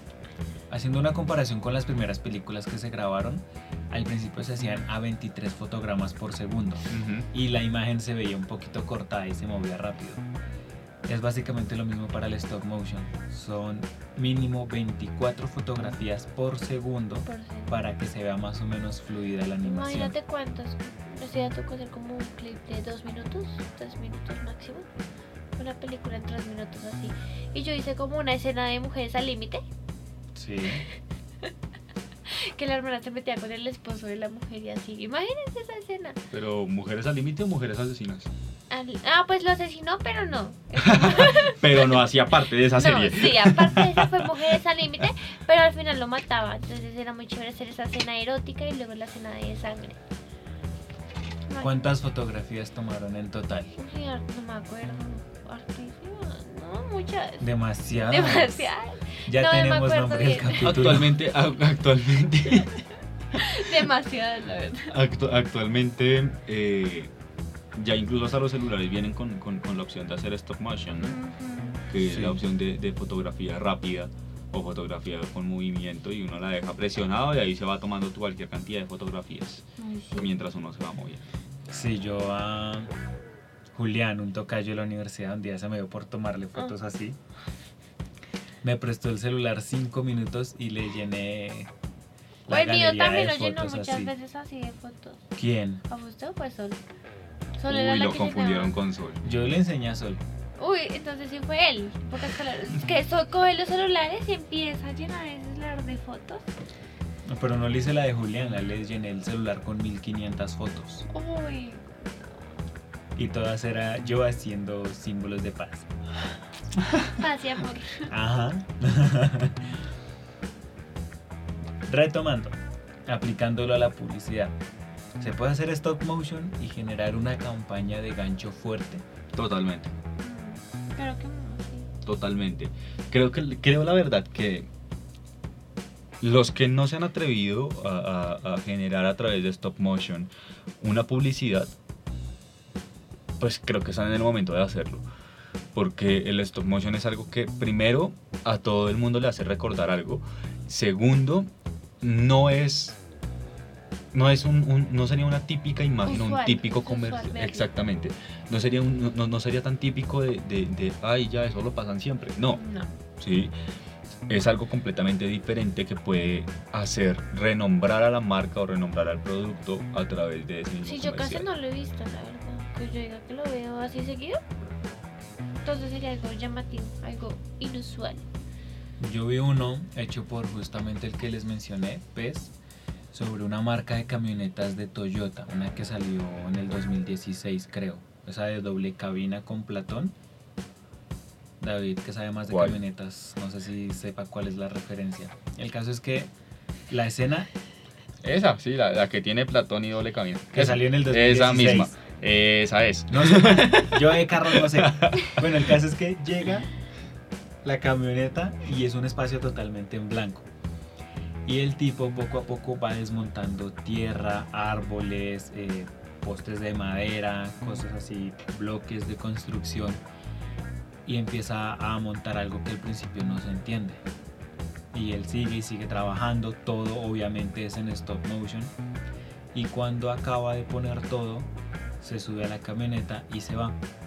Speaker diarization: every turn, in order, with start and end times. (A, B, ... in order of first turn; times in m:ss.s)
0:00.7-0:10.2 A
0:06.9-0:07.3 B
0:11.0-0:20.2 A
0:17.2-0:17.7 C
0:19.6-0:24.9 C
0:25.6-0:29.6 C
0:30.3-0:30.8 A
0:32.3-0:36.2 C
0:36.3-0:38.3 B
0:38.7-0:42.0 C
0:40.8-0:44.3 B
0:42.7-0:50.0 C
0:51.6-0:53.7 A
0:53.8-0:57.5 C
0:57.4-0:58.7 A
0:58.0-1:00.9 C
0:59.2-1:01.1 A
1:00.6-1:02.8 B
1:03.3-1:04.9 C
1:04.9-1:07.1 B
1:07.7-1:11.2 B
1:11.0-1:11.8 C
1:11.9-1:21.2 B
1:12.0-1:12.4 A
1:19.8-1:20.3 C
1:21.7-1:22.9 A
1:23.7-1:27.2 A
1:28.6-1:31.7 A
1:32.5-1:34.1 A
1:32.5-1:35.2 C
1:35.4-1:35.8 A
1:35.9-1:36.8 C
1:37.6-1:38.7 C
1:37.7-1:39.2 B
1:39.2-1:40.2 A
1:40.6-1:46.5 C
1:47.2-1:51.0 A
1:51.1-1:52.0 C
1:53.2-1:55.9 A
1:57.1-1:58.1 C
1:58.1-1:59.8 A
2:01.9-2:04.5 A
2:05.2-2:09.0 A
2:09.3-2:09.9 B
2:10.2-2:11.9 C
2:12.0-2:14.7 B
2:16.2-2:21.7 B
2:23.4-2:25.0 B
2:25.7-2:33.0 B
2:34.1-2:42.6 B
2:36.0-2:37.7 C
2:42.6-2:42.9 C
2:43.2-2:43.5 B
2:44.3-2:51.5 B
2:50.8-2:54.4 C
2:55.6-2:58.2 C
2:59.0-3:02.5 A
3:03.1-3:10.1 A
3:11.6-3:16.3 A
3:12.5-3:12.8 B
3:16.9-3:17.5 A
3:18.2-3:25.7 B
3:20.5-3:21.9 A
3:23.1-3:26.7 A
3:27.6-3:30.4 A
3:31.4-3:40.0 A
3:41.0-3:44.0 A
3:44.9-3:48.7 A
3:49.5-3:51.5 A
3:52.0-3:53.8 A